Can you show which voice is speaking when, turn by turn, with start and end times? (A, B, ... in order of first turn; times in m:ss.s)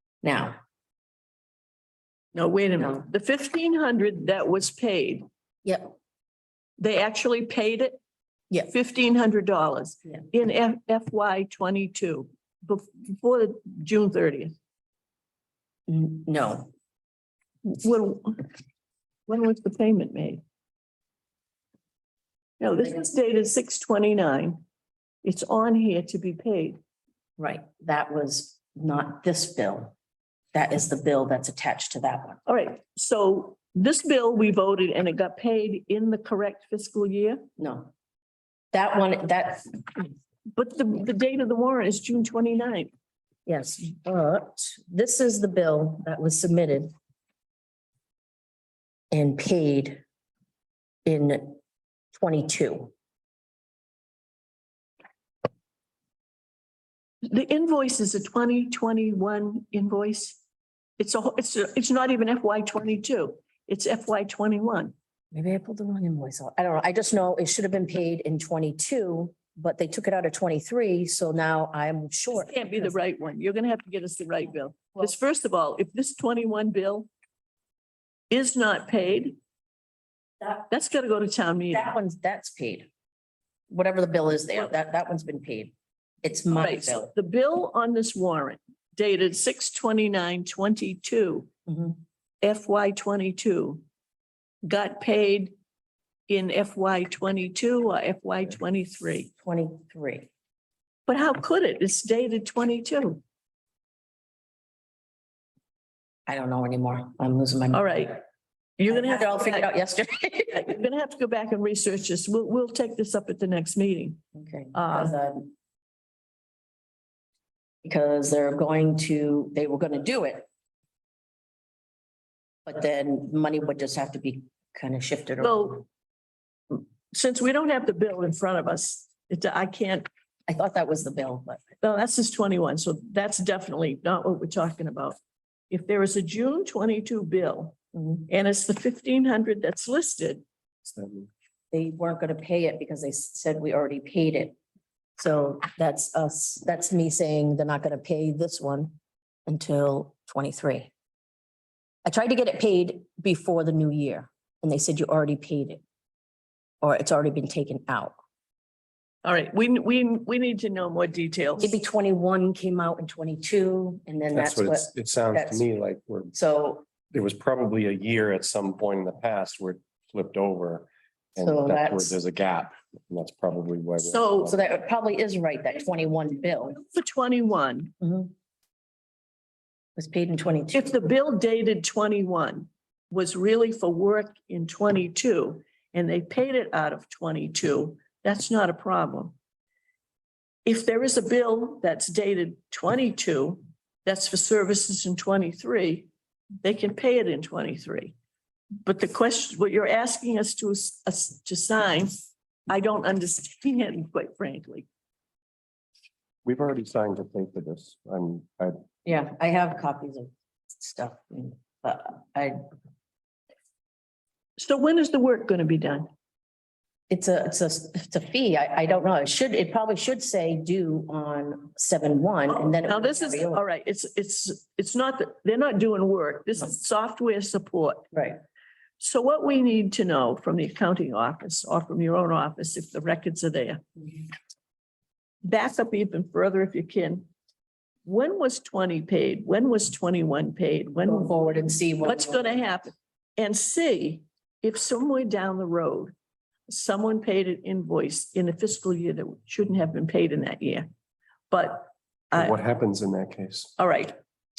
0:00.2-0:00.6 A
0:02.3-0:05.2 B
0:05.6-0:05.9 A
0:06.8-0:08.0 B
0:08.6-0:14.6 B
0:15.9-0:16.7 A
0:17.6-0:18.4 B
0:19.3-0:20.4 B
0:22.6-0:24.6 B
0:25.2-0:26.8 B
0:27.4-0:29.9 A
0:30.5-0:32.4 A
0:32.5-0:37.5 B
0:37.6-0:37.9 A
0:38.7-0:40.1 A
0:40.5-0:42.9 B
0:43.5-0:46.9 A
0:49.1-0:50.0 A
0:51.0-0:51.6 A
0:52.1-0:52.9 A
0:57.2-1:00.4 B
1:01.0-1:04.9 B
1:05.3-1:12.9 A
1:12.3-1:17.1 B
1:18.3-1:19.4 B
1:20.7-1:21.9 B
1:21.7-1:22.9 A
1:23.7-1:27.1 A
1:26.5-1:31.5 B
1:31.7-1:32.0 A
1:32.4-1:33.8 B
1:34.6-1:35.6 B
1:36.3-1:39.3 B
1:39.4-1:40.3 A
1:41.1-1:43.2 B
1:46.3-1:47.9 A
1:47.7-1:48.2 B
1:48.8-1:49.7 B
1:48.9-1:50.7 A
1:50.5-1:54.2 B
1:54.4-1:55.5 A
1:54.7-1:55.2 B
1:57.8-2:00.5 A
2:02.7-2:05.8 A
2:05.4-2:05.8 B
2:06.7-2:10.1 B
2:10.5-2:11.7 A
2:11.8-2:15.2 B
2:15.7-2:20.4 B
2:18.0-2:18.2 A
2:20.8-2:21.3 C
2:21.7-2:24.6 A
2:25.2-2:29.0 A
2:29.5-2:30.9 A
2:32.0-2:35.8 A
2:36.8-2:38.2 A
2:39.2-2:41.7 B
2:41.6-2:45.6 A
2:44.3-2:46.3 C
2:46.3-2:46.9 A
2:47.1-2:54.5 C
2:51.4-2:52.2 A
2:54.0-2:54.5 B
2:54.4-2:56.8 A
2:56.8-2:57.9 B
2:58.0-2:58.3 A
3:00.0-3:00.9 A
3:00.7-3:09.4 B
3:10.7-3:16.1 B
3:16.6-3:18.2 B
3:18.8-3:24.9 B
3:26.4-3:28.8 C
3:29.0-3:32.6 A
3:34.6-3:36.1 B
3:37.1-3:43.6 A
3:42.5-3:48.1 B
3:48.1-3:48.4 A
3:49.0-3:53.8 B
3:55.4-3:57.3 B
3:58.1-4:01.4 B
4:01.0-4:02.7 A
4:02.0-4:06.1 B
4:06.7-4:10.9 B
4:11.5-4:12.6 B
4:12.3-4:13.7 C
4:13.8-4:14.2 B